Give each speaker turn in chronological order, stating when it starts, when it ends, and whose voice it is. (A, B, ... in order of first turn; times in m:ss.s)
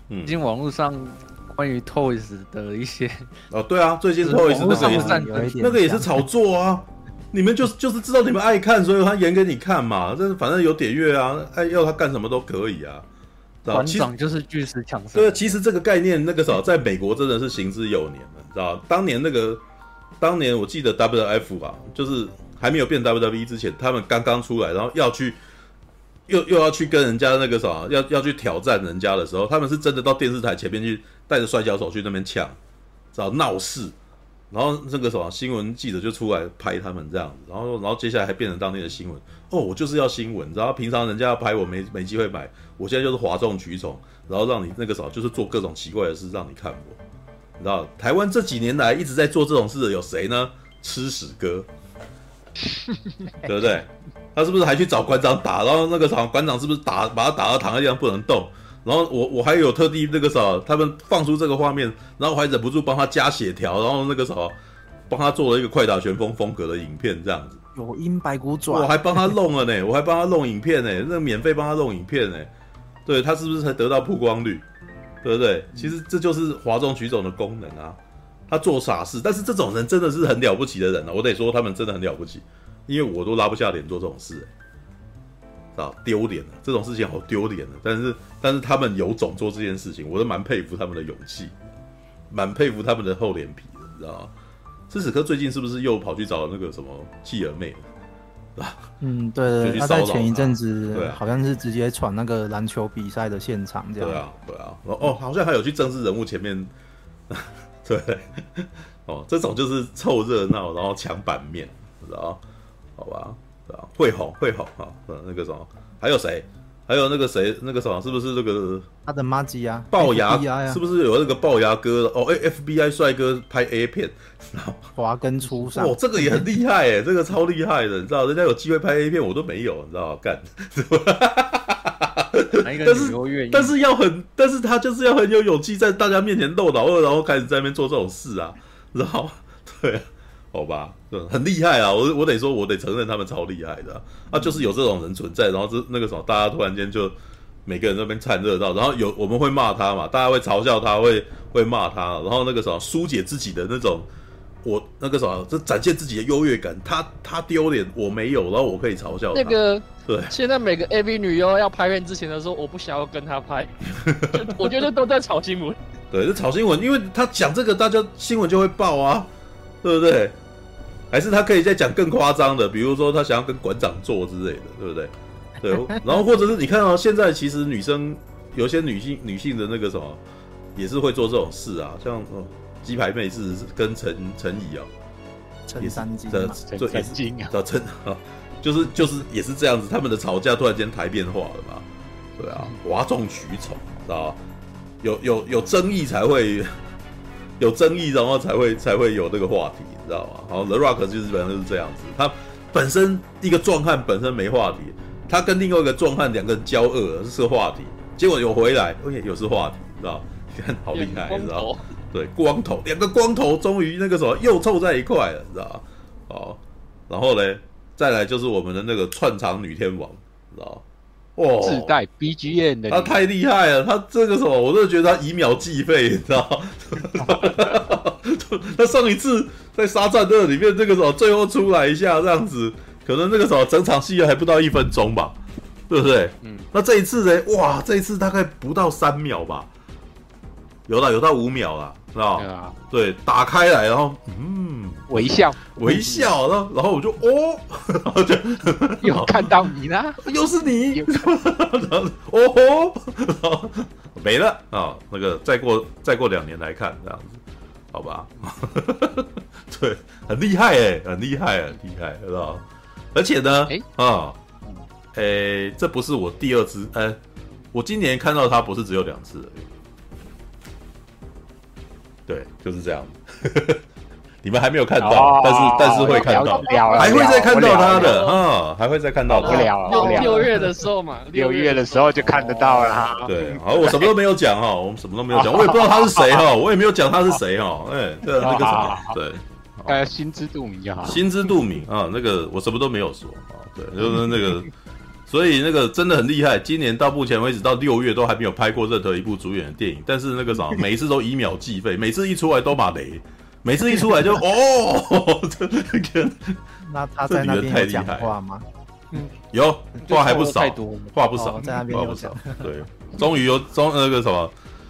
0:00.1-0:00.4 A
0:00.2-0:03.3 B
0:03.5-0:13.1 A
0:04.2-0:05.6 B
0:04.2-0:06.2 C
0:13.6-0:14.1 A
0:13.7-0:15.6 B
0:15.2-0:19.6 A
0:20.2-0:25.4 A
0:26.3-0:32.6 A
0:33.1-0:33.9 A
0:34.5-0:47.0 A
0:47.6-0:51.7 A
0:53.4-1:04.5 A
1:05.1-1:07.6 A
1:07.8-1:09.3 C
1:08.7-1:12.5 A
1:13.1-1:14.6 A
1:15.2-1:18.0 A
1:18.5-1:24.5 A
1:25.8-1:31.5 A
1:32.3-1:34.3 A
1:34.9-1:37.9 A
1:38.6-1:38.9 A
1:39.0-1:44.2 C
1:39.6-1:41.2 A
1:44.0-1:46.7 A
1:47.3-1:52.4 A
1:53.0-1:58.9 A
1:59.1-2:00.8 C
1:59.9-2:04.9 A
2:05.0-2:06.4 C
2:05.7-2:34.1 A
2:12.6-2:13.8 B
2:34.6-2:40.4 A
2:39.3-2:43.8 D
2:43.9-2:44.7 A
2:44.3-2:45.8 D
2:46.1-2:49.3 A
2:49.8-2:50.4 A
2:51.1-3:00.2 A
3:00.8-3:04.9 A
3:05.7-3:06.6 C
3:05.8-3:14.4 A
3:06.6-3:07.5 E
3:15.0-3:16.8 A
3:17.6-3:40.8 A
3:30.9-3:31.8 D
3:41.4-3:42.0 A
3:41.6-3:43.2 E
3:42.9-3:55.4 A
3:47.2-3:47.6 E
3:55.9-3:59.7 A
3:56.4-3:56.7 E
4:00.9-4:09.6 A
4:02.4-4:02.8 E
4:05.1-4:06.3 E
4:09.0-4:10.3 E
4:10.2-4:17.4 A
4:10.9-4:11.2 E
4:17.9-4:22.6 A
4:23.1-4:24.4 A
4:25.1-4:27.2 A
4:27.7-4:29.7 A
4:32.3-4:33.8 A
4:34.4-4:40.3 A
4:35.0-4:38.2 E
4:36.0-4:38.4 D
4:39.3-4:40.6 E
4:39.4-4:43.3 D
4:41.3-4:44.0 E
4:43.3-4:50.0 A
4:45.3-4:46.5 E
4:48.4-4:49.2 E
4:49.9-4:51.2 E
4:51.0-4:54.7 A
4:55.3-5:06.6 A
5:06.8-5:08.7 C
5:07.3-5:08.4 A
5:09.5-5:14.5 A
5:10.0-5:11.1 B
5:11.4-5:12.7 C